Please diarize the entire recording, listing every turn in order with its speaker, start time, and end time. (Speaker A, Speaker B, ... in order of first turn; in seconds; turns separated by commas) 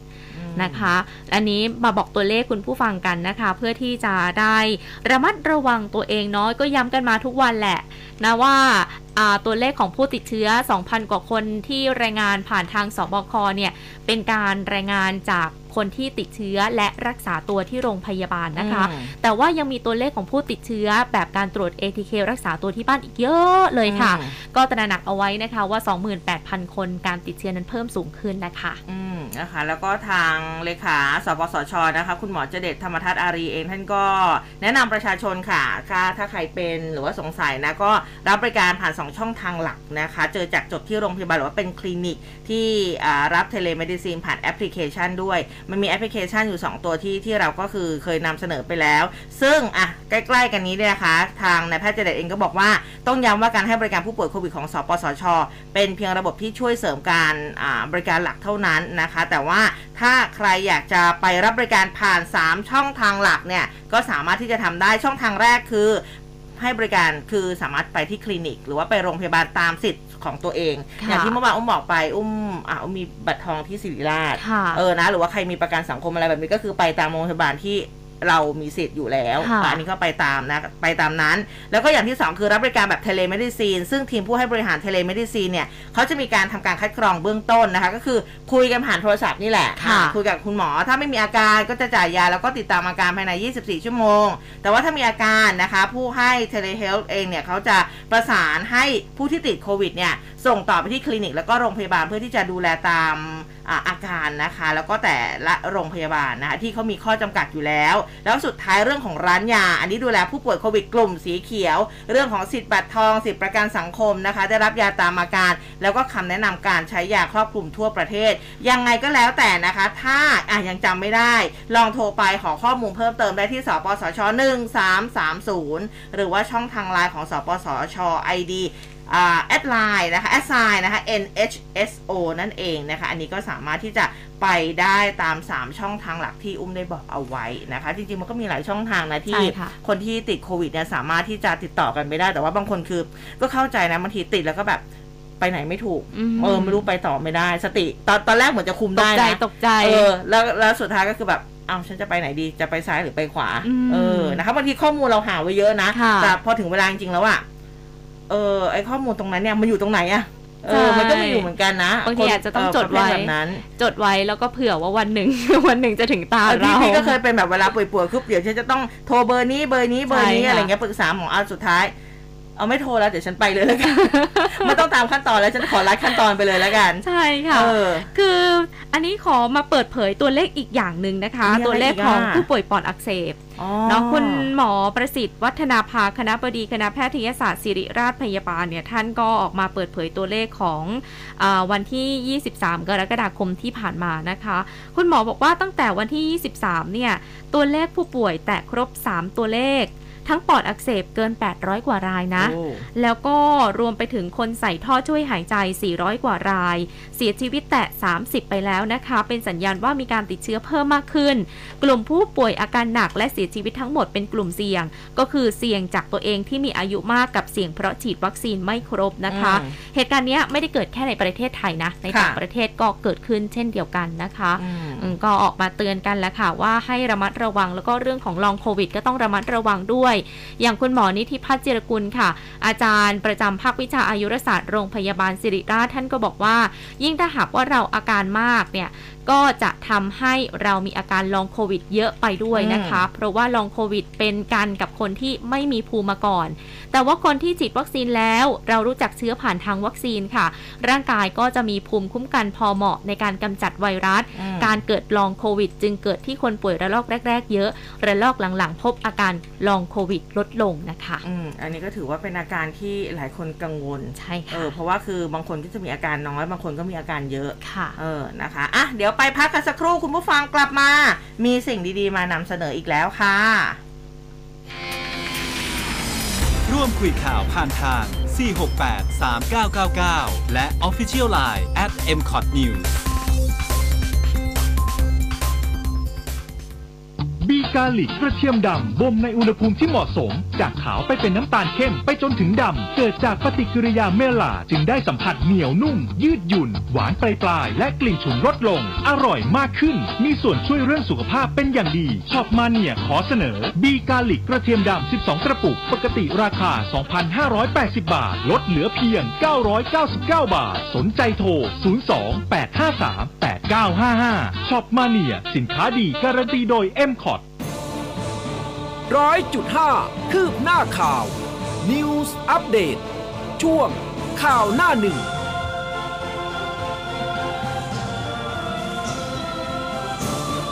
Speaker A: 0.3-0.9, Speaker B: 0.6-28.8, Speaker A: 18.6-19.1, Speaker A: 23.9-24.3, Speaker A: 28.9-66.0, Speaker A: 66.6-144.8, Speaker B: 71.0-71.3, Speaker B: 74.4-74.8, Speaker B: 79.4-79.8, Speaker B: 89.8-90.2, Speaker B: 139.3-139.8, Speaker A: 145.4-157.4, Speaker B: 146.1-146.8, Speaker B: 148.9-150.1, Speaker B: 153.6-154.4, Speaker B: 155.9-156.4, Speaker A: 158.3-163.6, Speaker B: 160.7-161.5, Speaker B: 162.0-167.2, Speaker A: 166.5-171.9, Speaker B: 170.1-170.7, Speaker A: 172.6-178.1, Speaker B: 173.9-174.8, Speaker B: 177.0-261.2, Speaker A: 181.4-182.5, Speaker A: 183.6-184.5, Speaker A: 202.4-202.8, Speaker A: 219.3-219.8, Speaker A: 222.1-222.4, Speaker A: 224.6-225.1, Speaker A: 242.6-243.1, Speaker A: 254.4-254.8, Speaker A: 261.2-273.8, Speaker B: 264.1-264.7, Speaker B: 267.6-268.0, Speaker C: 276.7-282.9, Speaker D: 287.4-317.4, Speaker E: 319.1-323.0, Speaker E: 323.6-325.3